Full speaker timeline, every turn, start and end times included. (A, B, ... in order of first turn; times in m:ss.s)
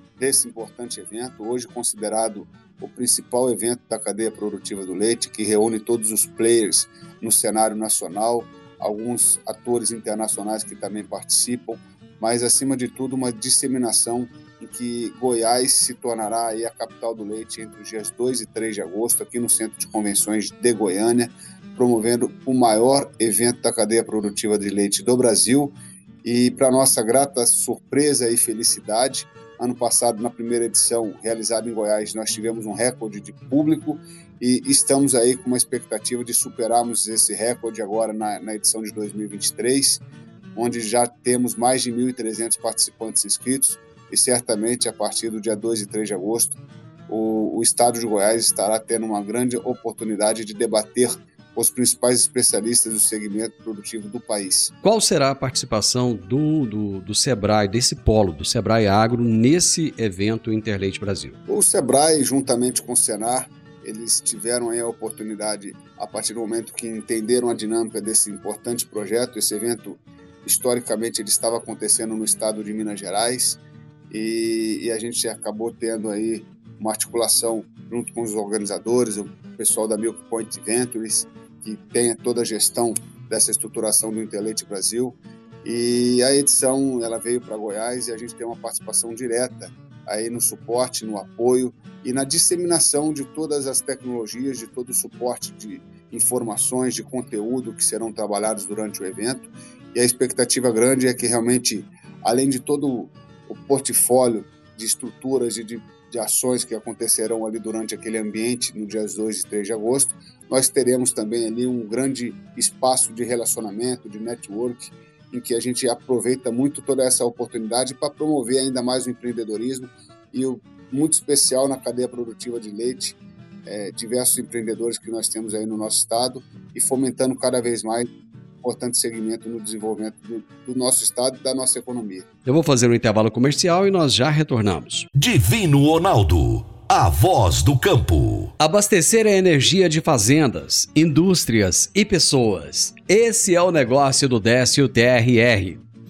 0:00.2-0:40.0 A
0:40.6-0:46.6 A
0:47.1-0:54.7 A
0:54.8-1:01.4 B
1:01.5-2:08.1 A
2:08.6-2:12.3 A
2:12.5-2:15.1 B
2:15.2-2:18.5 C
2:18.6-2:25.8 B